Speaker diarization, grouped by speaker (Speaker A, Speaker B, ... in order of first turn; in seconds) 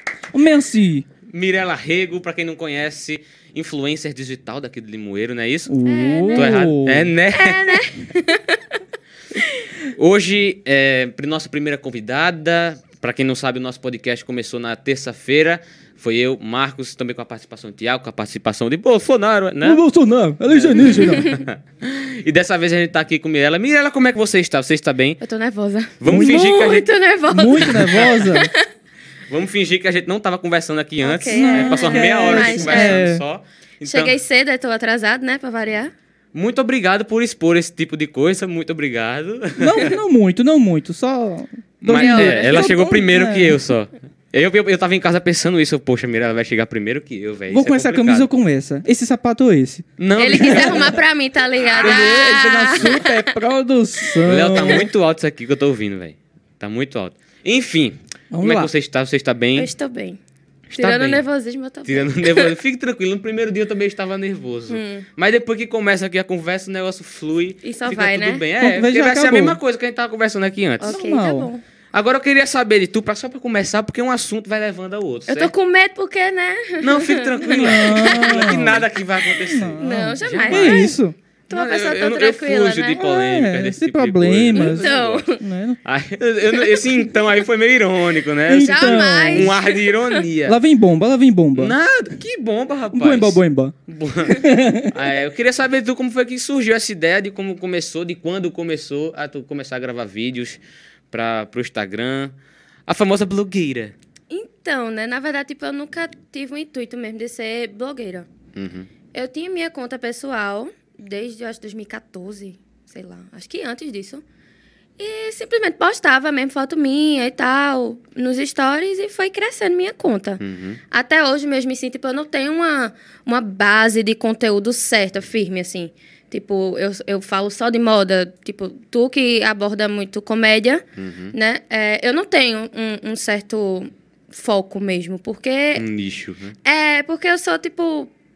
Speaker A: 0.3-1.1, 5.7-7.1, 19.6-21.3, 26.1-26.6, 27.3-28.5, 31.3-33.2, 39.6-43.6, 47.5-51.0, 51.8-54.9, 58.3-58.7, 68.6-69.6, 70.8-71.5, 77.5-78.9, 79.4-81.1, 83.0-85.8, 88.5-89.5, 90.4-91.8, 92.9-93.8, 94.3-94.9
Speaker B: 1.3-5.7, 6.3-7.8, 9.9-19.8, 20.5-25.2, 26.0-26.9, 27.6-28.3, 29.3-34.1, 36.3-39.9, 41.8-48.3, 50.0-51.0, 51.7-52.6, 54.2-59.7, 60.7-61.2, 61.8-71.0, 71.9-75.5, 76.8-80.9, 81.5-85.2, 85.8-90.5, 91.5-100.6, 101.1-102.3, 102.9-103.9, 108.5-108.9, 120.4-120.8, 131.0-131.3, 135.8-136.6
Speaker C: 5.8-6.6, 7.3-8.8, 20.8-21.4, 25.2-28.6, 31.0-33.0, 33.8-35.9, 41.9-42.7, 50.1-53.3, 59.5-60.2, 60.7-62.5, 64.7-65.0, 67.6-68.4, 70.8-71.6, 75.3-78.5, 79.8-81.0, 81.5-83.1, 84.5-85.4, 86.5-87.1, 88.6-90.2, 104.3-108.3, 109.1-114.2, 115.0-135.8, 136.6-138.1